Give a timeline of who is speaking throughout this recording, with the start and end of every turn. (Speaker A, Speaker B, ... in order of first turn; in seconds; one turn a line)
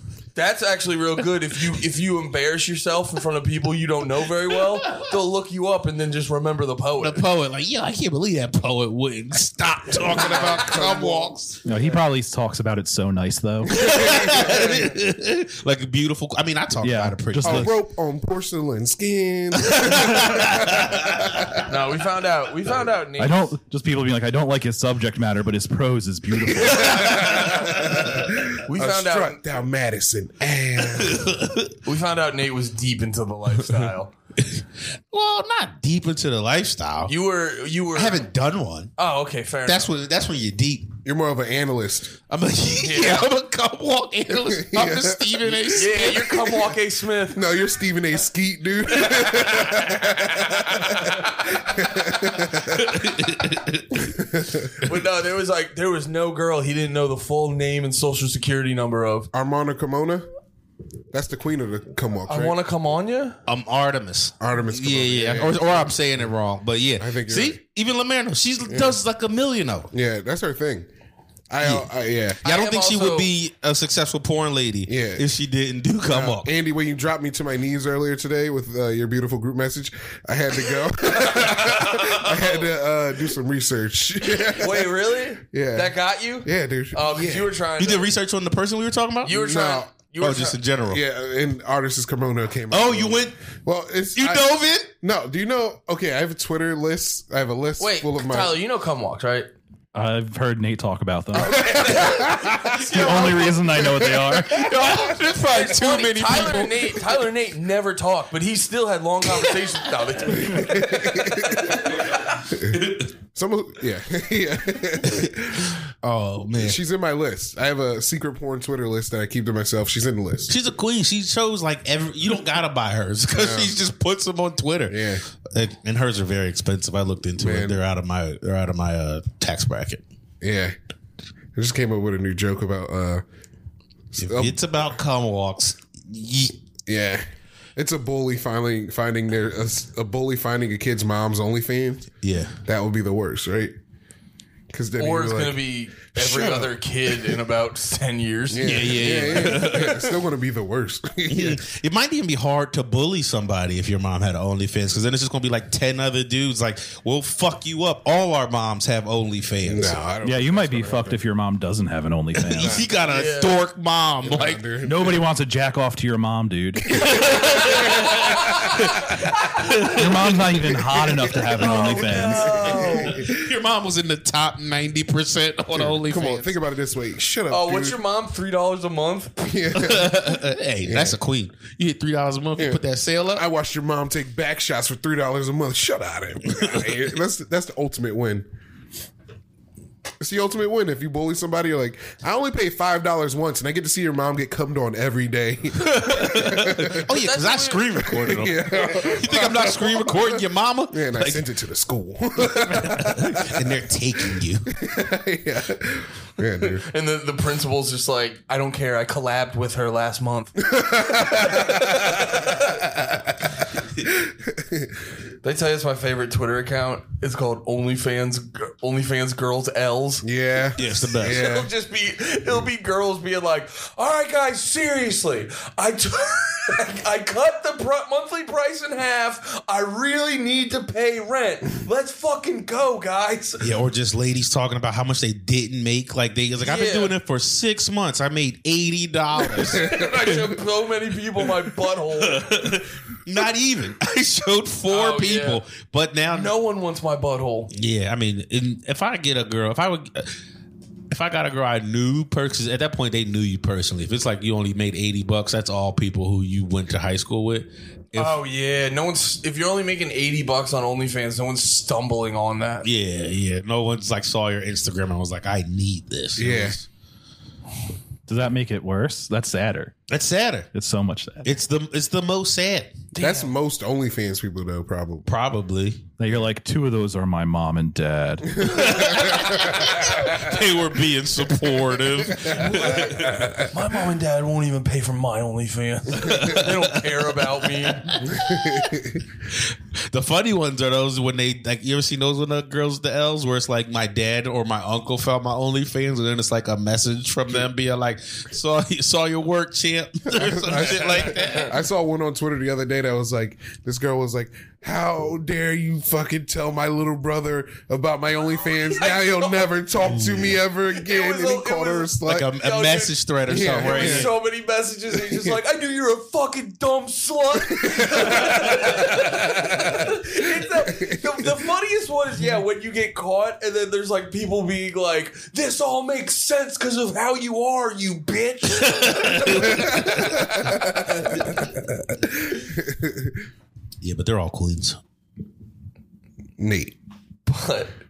Speaker A: 0.3-7.2
Speaker B: 4.5-5.1
Speaker B: 7.0-11.6
Speaker C: 9.9-11.3
Speaker A: 10.1-10.9
Speaker D: 11.6-13.8
Speaker B: 13.6-17.7
Speaker C: 13.7-14.9
Speaker D: 16.8-17.7
Speaker C: 17.4-21.6
Speaker B: 19.6-21.6
Speaker A: 21.6-23.5
Speaker D: 23.2-27.6
Speaker C: 26.5-31.4
Speaker B: 26.7-28.2
Speaker A: 28.6-29.4
Speaker B: 31.0-31.7
Speaker A: 31.8-34.1
Speaker B: 34.4-37.1
Speaker A: 37.1-38.2
Speaker B: 37.9-38.9
Speaker A: 39.0-39.9
Speaker B: 39.6-40.9
Speaker C: 41.0-42.2
Speaker B: 42.3-46.7
Speaker A: 42.8-43.2
Speaker C: 44.4-45.8
Speaker A: 45.7-47.4
Speaker C: 47.3-53.0
Speaker B: 49.1-50.0
Speaker B: 52.7-53.9
Speaker C: 54.0-54.7
Speaker A: 54.8-59.3
Speaker C: 59.3-60.3
Speaker C: 61.1-62.5
Speaker A: 62.3-63.4
Speaker B: 63.5-69.9
Speaker C: 64.4-65.9
Speaker C: 67.0-67.6
Speaker C: 68.7-69.0
Speaker C: 69.9-70.9
Speaker C: 71.5-72.4
Speaker B: 71.6-71.9
Speaker A: 72.4-73.3
Speaker B: 72.4-76.5
Speaker C: 74.9-75.2
Speaker C: 76.1-85.0
Speaker A: 81.5-82.6
Speaker A: 84.4-88.1
Speaker C: 85.5-87.5
Speaker B: 87.8-89.5
Speaker A: 89.2-90.6
Speaker C: 89.3-89.9
Speaker B: 90.2-91.0
Speaker C: 90.9-94.5
Speaker B: 92.7-93.4
Speaker B: 94.1-94.9
Speaker C: 95.0-98.5
Speaker A: 97.8-99.5
Speaker D: 99.9-101.8
Speaker A: 101.4-102.3
Speaker C: 101.4-104.6
Speaker B: 101.8-103.4
Speaker D: 102.7-104.7
Speaker B: 104.5-107.1
Speaker A: 105.4-111.7
Speaker B: 109.3-109.6
Speaker C: 110.3-115.8
Speaker B: 115.0-116.8
Speaker C: 116.6-120.5
Speaker B: 120.5-130.0
Speaker C: 123.3-123.7
Speaker C: 124.9-125.2
Speaker C: 127.4-127.8
Speaker C: 130.4-130.7
Speaker C: 131.5-133.2
Speaker C: 134.1-134.7
Speaker B: 134.2-136.5
Speaker C: 136.9-137.2
Speaker C: 137.8-142.1
Speaker B: 142.2-142.6
Speaker C: 142.6-143.7
Speaker C: 144.7-145.6
Speaker A: 145.0-149.8
Speaker C: 146.2-146.7
Speaker C: 148.5-151.6
Speaker B: 148.6-150.1
Speaker B: 151.3-160.0
Speaker C: 159.6-161.2
Speaker D: 160.2-162.8
Speaker B: 162.3-164.6
Speaker C: 162.5-162.9
Speaker A: 163.1-163.6
Speaker C: 164.2-165.2
Speaker D: 164.8-167.2
Speaker C: 166.9-169.0
Speaker B: 166.9-170.4
Speaker D: 169.8-172.6
Speaker A: 171.6-173.2
Speaker C: 171.8-173.4
Speaker B: 172.6-176.5
Speaker C: 175.7-178.0
Speaker A: 177.5-179.4
Speaker C: 179.4-181.2
Speaker B: 179.7-183.4
Speaker C: 182.6-188.4
Speaker C: 190.2-197.1
Speaker B: 195.8-201.4
Speaker A: 197.1-198.3
Speaker C: 198.1-203.7
Speaker B: 202.4-204.7
Speaker C: 204.7-206.8
Speaker A: 206.8-212.6
Speaker C: 210.6-213.4
Speaker C: 214.0-214.9
Speaker A: 215.4-220.2
Speaker C: 220.2-221.7
Speaker B: 220.8-221.5
Speaker A: 220.8-233.7
Speaker B: 233.6-240.3
Speaker A: 236.6-237.2
Speaker A: 239.5-242.7
Speaker C: 239.8-240.1
Speaker B: 242.2-246.5
Speaker A: 244.9-245.6
Speaker A: 246.3-247.7
Speaker B: 247.7-250.3
Speaker B: 251.1-258.4
Speaker A: 258.1-262.9
Speaker B: 262.8-266.9
Speaker C: 266.4-266.8
Speaker D: 268.3-269.9
Speaker B: 270.1-270.7
Speaker D: 270.7-271.5
Speaker B: 271.4-273.0
Speaker A: 273.1-273.5
Speaker C: 273.2-275.3
Speaker B: 275.2-276.1
Speaker D: 276.2-278.9
Speaker C: 278.6-280.1
Speaker B: 278.6-283.5
Speaker C: 282.3-283.7
Speaker A: 282.4-288.2
Speaker B: 286.1-301.8
Speaker C: 288.3-289.2
Speaker C: 300.3-312.5
Speaker A: 300.8-301.7
Speaker A: 308.9-309.8
Speaker B: 310.0-310.6
Speaker A: 310.9-330.9
Speaker B: 312.2-314.3
Speaker C: 313.5-314.3
Speaker C: 315.3-315.6
Speaker C: 317.7-320.1
Speaker C: 320.9-321.3
Speaker B: 328.8-330.7
Speaker C: 329.8-333.4
Speaker B: 334.0-335.0
Speaker C: 336.6-336.9
Speaker A: 337.4-337.9